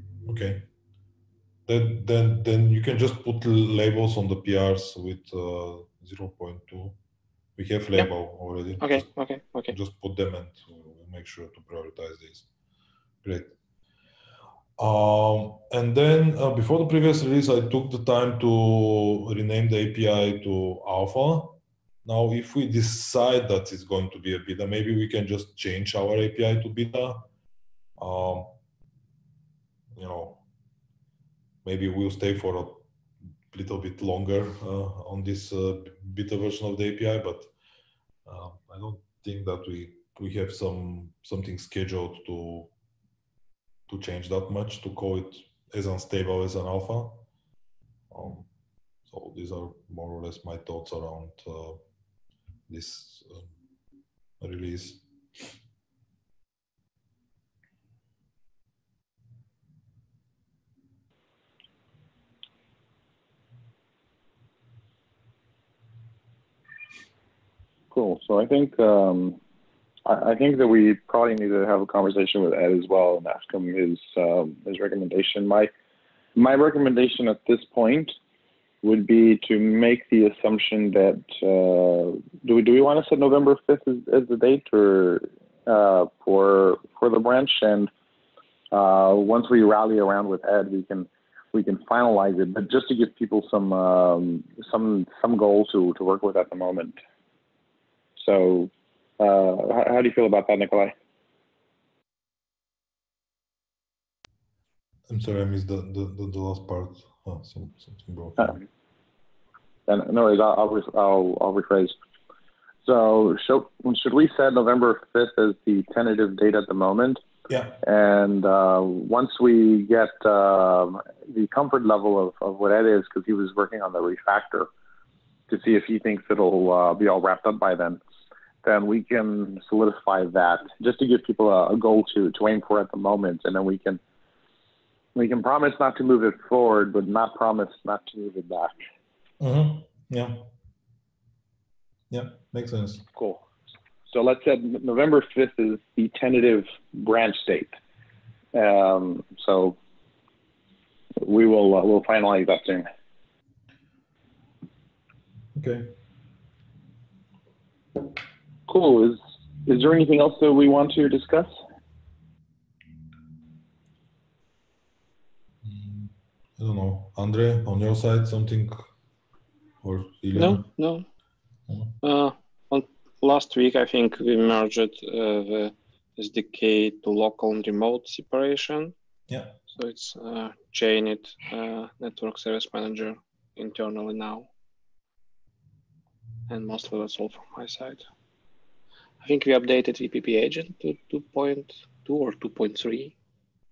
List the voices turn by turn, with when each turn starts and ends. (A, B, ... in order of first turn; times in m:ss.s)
0:00.2-0:00.7 A
0:01.7-0:07.0 A
0:07.6-0:09.1 A
0:08.8-0:09.7 B
0:09.7-0:12.5 A
0:13.2-0:13.5 A
0:14.8-0:27.3 A
0:28.0-0:28.6 A
0:29.9-0:30.4 A
0:31.6-0:32.9 A
0:33.5-0:37.5 A
0:38.2-0:42.7 A
0:43.9-0:47.2 A
0:48.1-0:48.5 A
0:49.1-0:51.8 A
0:52.7-0:53.5 A
0:54.4-0:55.0 A
1:07.9-1:09.4 C
1:10.0-1:15.7 C
1:16.4-1:18.1 C
1:18.8-1:27.9 C
1:28.7-1:37.0 C
1:38.2-1:40.9 C
1:45.1-1:48.6 A
1:48.4-1:48.6 C
1:49.9-1:51.9 C
1:52.8-1:57.2 C
1:57.5-1:57.8 A
1:57.8-2:04.7 C
2:05.5-2:08.0 C
2:08.6-2:14.0 C
2:15.1-2:18.7 C
2:19.4-2:20.5 A
2:22.1-2:23.1 A
2:23.1-2:23.4 C
2:24.1-2:27.8 C
2:28.5-2:29.8 C
2:31.2-2:32.8 C
2:35.5-2:35.9 A
2:38.7-2:41.5 C
2:45.6-2:48.8 A
2:49.8-2:50.7 A
2:50.3-2:51.0 B
2:51.7-2:51.9 A
2:52.0-2:58.9 B
2:59.3-2:59.6 A
2:59.7-3:04.5 B
3:06.5-3:08.0 B
3:09.2-3:13.1 B